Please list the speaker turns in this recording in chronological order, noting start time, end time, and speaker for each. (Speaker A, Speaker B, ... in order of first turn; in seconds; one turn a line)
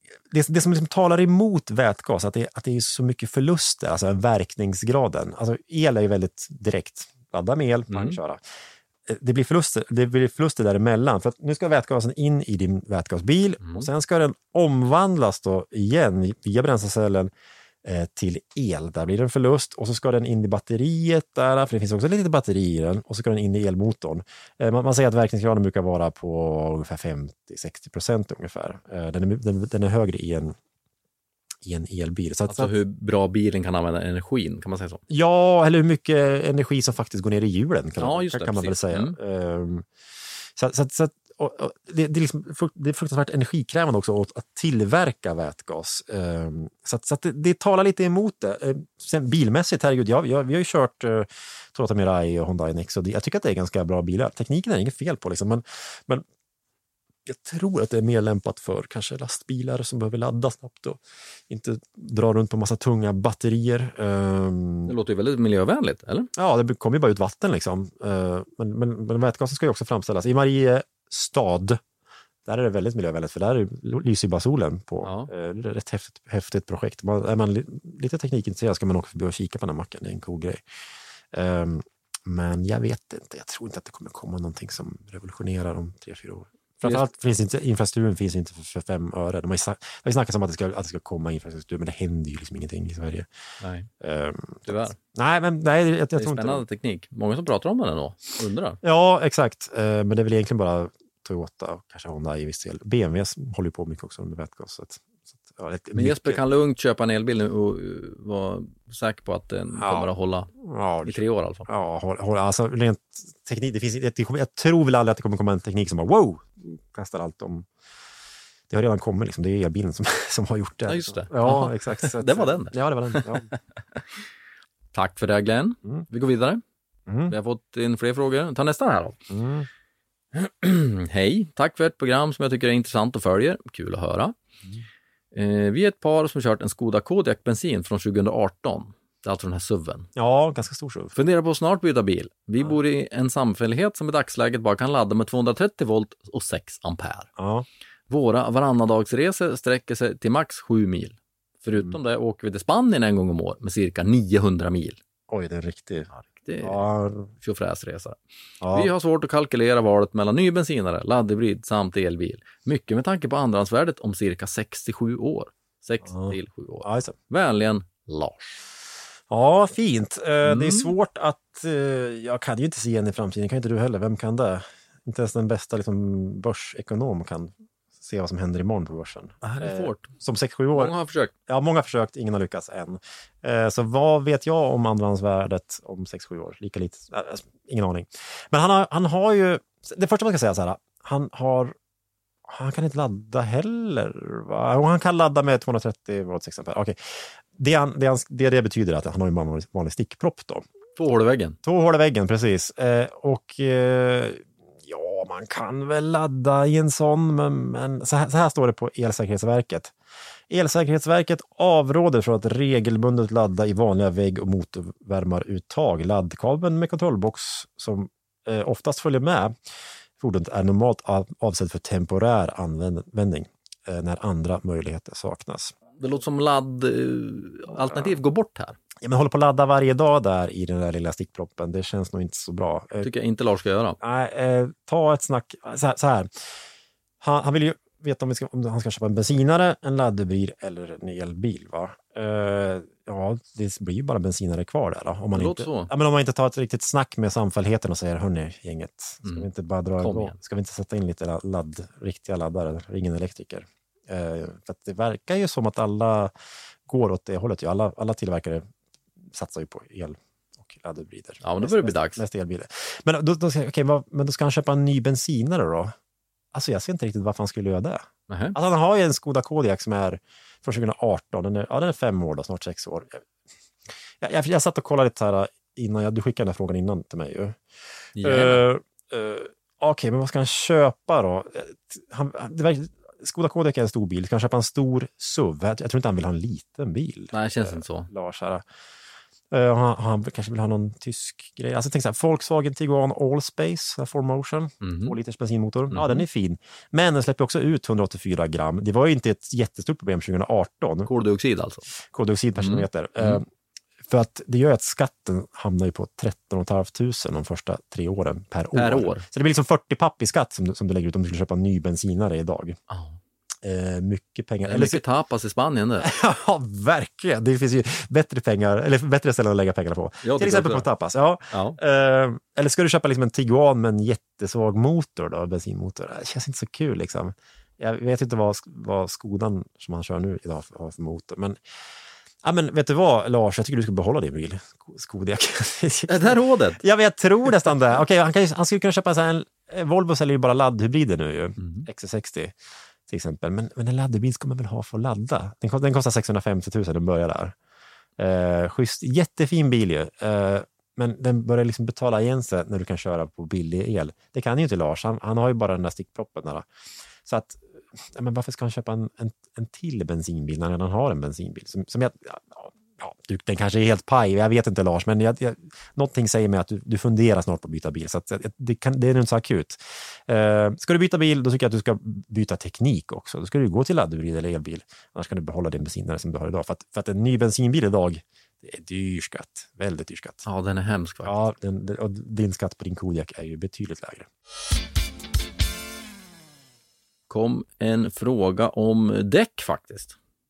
Speaker A: 0.3-8.4
Speaker B: 7.9-8.2
Speaker A: 9.1-17.3
Speaker B: 13.6-13.9
Speaker A: 17.8-30.6
Speaker A: 31.6-32.7
Speaker B: 32.5-35.0
Speaker A: 35.1-39.9
Speaker B: 38.0-39.1
Speaker A: 40.5-56.2
Speaker A: 57.2-64.9
Speaker B: 64.9-66.3
Speaker A: 66.3-71.8
Speaker A: 72.4-80.6
Speaker B: 75.0-75.3
Speaker A: 81.3-93.3
Speaker B: 93.6-93.9
Speaker A: 94.0-96.6
Speaker B: 94.7-95.0
Speaker B: 96.2-98.8
Speaker A: 98.8-106.4
Speaker B: 105.9-110.5
Speaker A: 109.8-117.7
Speaker B: 111.0-111.7
Speaker A: 118.7-123.5
Speaker B: 120.9-124.0
Speaker B: 124.9-126.6
Speaker A: 127.1-127.3
Speaker B: 127.3-129.2
Speaker A: 129.3-129.7
Speaker B: 130.3-134.3
Speaker B: 135.3-140.1
Speaker A: 140.2-141.1
Speaker B: 141.1-147.3
Speaker A: 147.4-147.7
Speaker B: 148.1-155.0
Speaker A: 151.7-152.0
Speaker A: 155.3-157.3
Speaker B: 156.1-156.8
Speaker B: 157.4-158.2
Speaker A: 158.6-158.9
Speaker B: 158.7-168.6
Speaker A: 166.0-167.1
Speaker A: 169.3-180.9
Speaker B: 170.4-170.9
Speaker B: 179.4-180.1
Speaker B: 180.7-181.3
Speaker A: 181.4-191.7
Speaker A: 192.5-200.7
Speaker B: 201.0-201.6
Speaker A: 201.6-209.9
Speaker A: 210.5-219.6
Speaker A: 220.2-225.7
Speaker B: 226.0-228.8
Speaker A: 227.7-228.2
Speaker A: 229.0-233.1
Speaker B: 233.0-234.0
Speaker A: 234.0-236.6
Speaker A: 237.2-256.3
Speaker B: 245.3-245.9
Speaker B: 250.0-250.3
Speaker A: 256.9-258.7
Speaker A: 259.2-265.9
Speaker B: 261.4-262.2
Speaker A: 266.5-273.2
Speaker B: 268.3-268.6
Speaker A: 274.2-277.6
Speaker B: 278.1-278.6
Speaker A: 278.2-288.6
Speaker B: 287.3-288.1
Speaker A: 289.5-301.1
Speaker B: 294.8-295.1
Speaker B: 295.9-296.2
Speaker B: 301.1-301.8
Speaker A: 302.1-303.4
Speaker B: 302.6-303.4
Speaker A: 304.0-312.8
Speaker B: 308.7-309.2
Speaker B: 312.9-313.2
Speaker A: 313.6-315.0
Speaker B: 314.6-316.1
Speaker A: 316.0-331.6
Speaker B: 320.2-320.9
Speaker B: 321.5-321.8
Speaker A: 332.4-342.5
Speaker B: 336.1-336.8
Speaker B: 341.6-341.9
Speaker A: 343.1-347.5
Speaker A: 348.2-356.6
Speaker A: 357.2-380.4
Speaker B: 380.4-381.3
Speaker A: 381.2-384.3
Speaker B: 387.3-390.1